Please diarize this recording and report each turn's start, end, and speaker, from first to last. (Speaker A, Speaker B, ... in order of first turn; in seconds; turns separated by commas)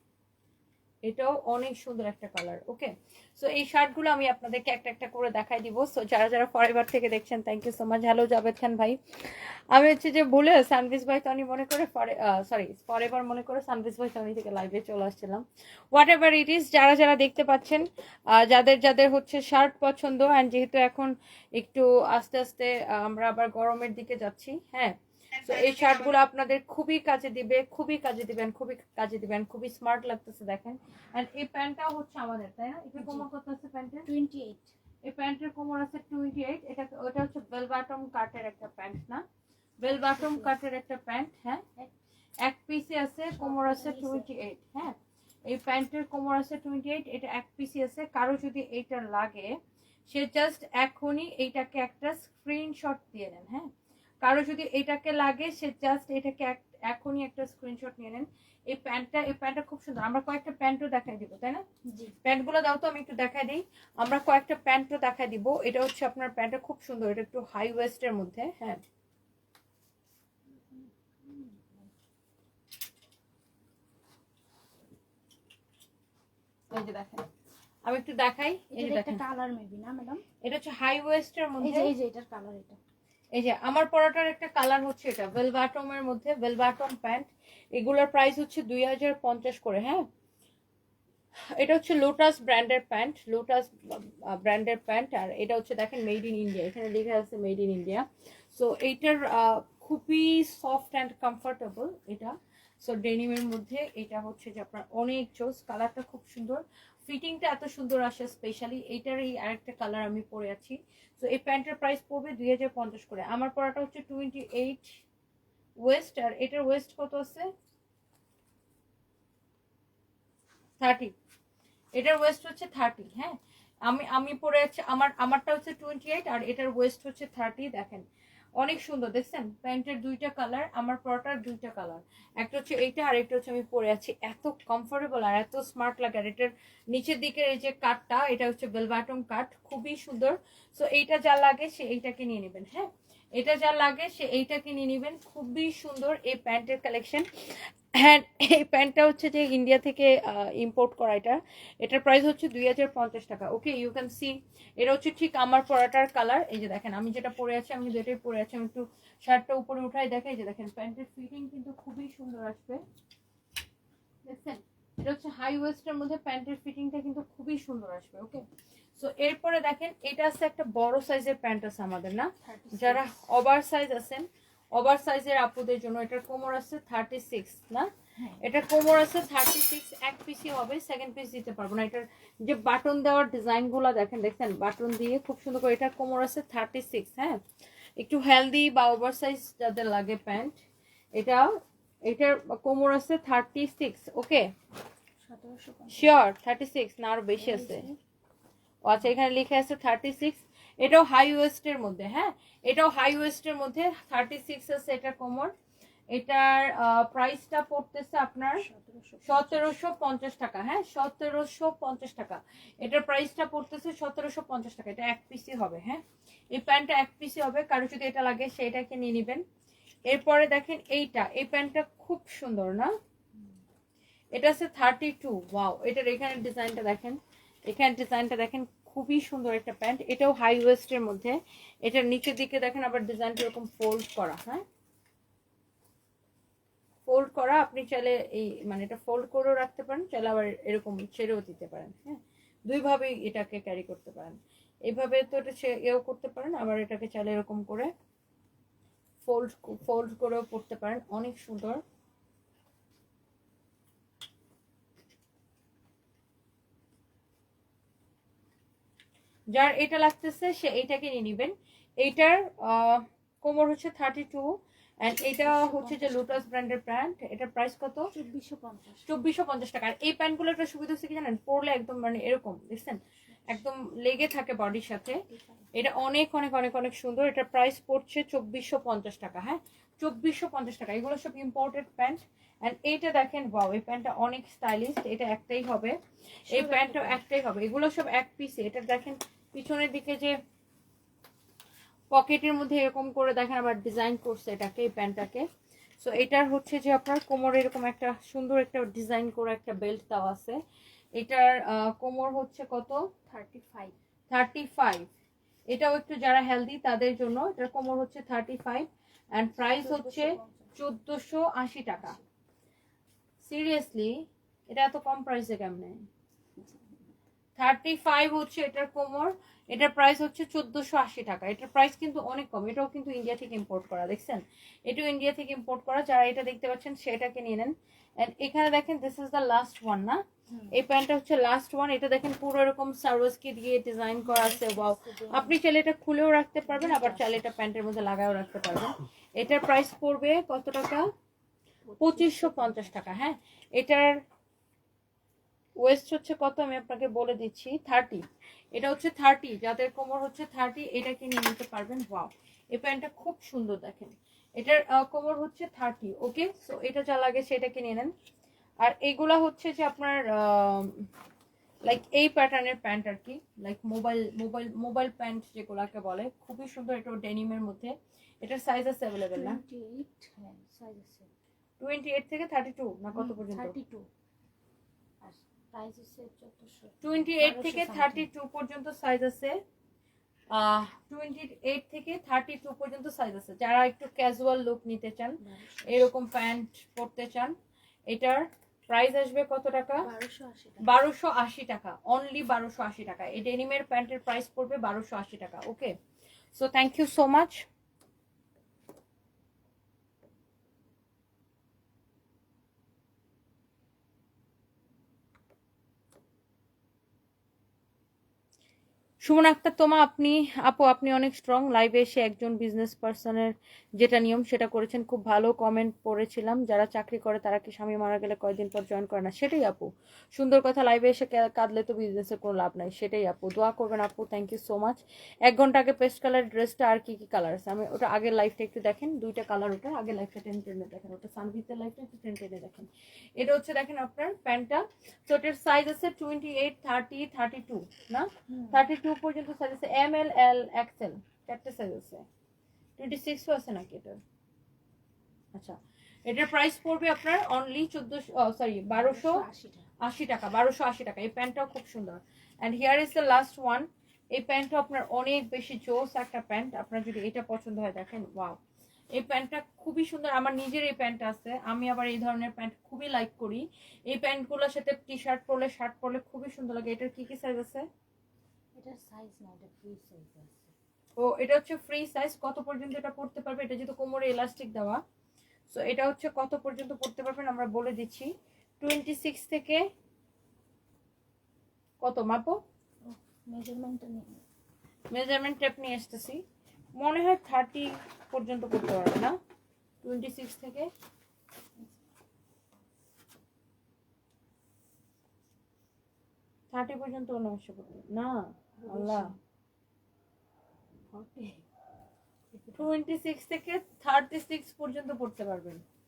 Speaker A: 1.0-34.1, Speaker B: 33.0-33.3, Speaker B: 34.0-34.7, Speaker A: 35.0-39.2, Speaker A: 39.8-41.6, Speaker B: 40.0-40.5, Speaker A: 42.4-45.0, Speaker B: 43.4-44.3, Speaker A: 45.5-49.6, Speaker A: 50.1-53.7, Speaker A: 54.2-61.6, Speaker B: 61.9-62.2, Speaker A: 62.2-68.8, Speaker B: 70.6-71.9, Speaker A: 76.7-77.3, Speaker A: 77.9-79.2, Speaker B: 78.7-80.2, Speaker A: 80.4-81.9, Speaker B: 81.6-82.8, Speaker A: 83.3-90.1, Speaker A: 91.6-115.0, Speaker A: 115.8-117.5, Speaker A: 120.8-121.1, Speaker A: 122.0-128.1, Speaker A: 128.6-162.8, Speaker A: 164.2-168.4, Speaker A: 169.0-187.4, Speaker B: 172.4-173.2, Speaker B: 178.2-178.4, Speaker A: 188.0-190.6, Speaker A: 191.2-191.5, Speaker A: 192.1-194.5, Speaker B: 195.2-196.1, Speaker A: 195.9-197.9, Speaker B: 197.4-198.0, Speaker A: 198.8-205.5, Speaker A: 206.1-208.6, Speaker B: 208.6-209.7, Speaker A: 209.2-216.0, Speaker A: 216.5-219.4, Speaker A: 220.1-222.9, Speaker A: 224.3-234.6, Speaker A: 237.1-247.9, Speaker A: 249.2-251.8, Speaker A: 259.5-268.1, Speaker B: 265.2-266.5, Speaker B: 268.1-269.1, Speaker A: 269.1-275.2, Speaker B: 275.3-275.7, Speaker A: 275.7-286.0, Speaker B: 286.5-287.2, Speaker A: 286.5-290.4, Speaker A: 292.1-295.5, Speaker A: 296.0-300.6, Speaker A: 301.2-303.0, Speaker B: 303.3-303.9, Speaker A: 304.3-305.1, Speaker A: 305.7-312.2, Speaker B: 309.6-310.7, Speaker A: 313.4-316.0, Speaker A: 317.6-341.1, Speaker B: 330.5-330.8, Speaker B: 334.2-335.6, Speaker B: 336.6-337.5, Speaker B: 341.9-343.1, Speaker A: 342.0-344.2, Speaker A: 345.8-358.1, Speaker A: 358.8-361.1, Speaker A: 361.9-369.6, Speaker B: 369.3-371.3, Speaker A: 371.8-373.8, Speaker B: 373.1-374.1, Speaker B: 375.2-378.3, Speaker A: 377.0-379.6, Speaker A: 380.5-387.6, Speaker B: 385.4-386.1, Speaker A: 388.1-390.1, Speaker B: 390.0-391.0, Speaker A: 390.8-396.0, Speaker A: 396.5-397.7, Speaker A: 409.2-442.2, Speaker B: 438.5-438.8, Speaker A: 443.0-444.2, Speaker A: 445.5-449.4, Speaker B: 448.9-449.9, Speaker A: 450.0-458.6, Speaker A: 459.1-467.9, Speaker B: 468.8-470.7, Speaker A: 471.2-475.0, Speaker A: 475.7-479.9, Speaker A: 482.0-482.6, Speaker B: 483.1-484.4, Speaker A: 485.1-486.4, Speaker A: 487.0-489.4, Speaker A: 490.0-490.9, Speaker A: 496.7-499.3, Speaker B: 498.8-499.4, Speaker B: 501.1-501.6, Speaker B: 502.5-502.9, Speaker A: 502.8-505.8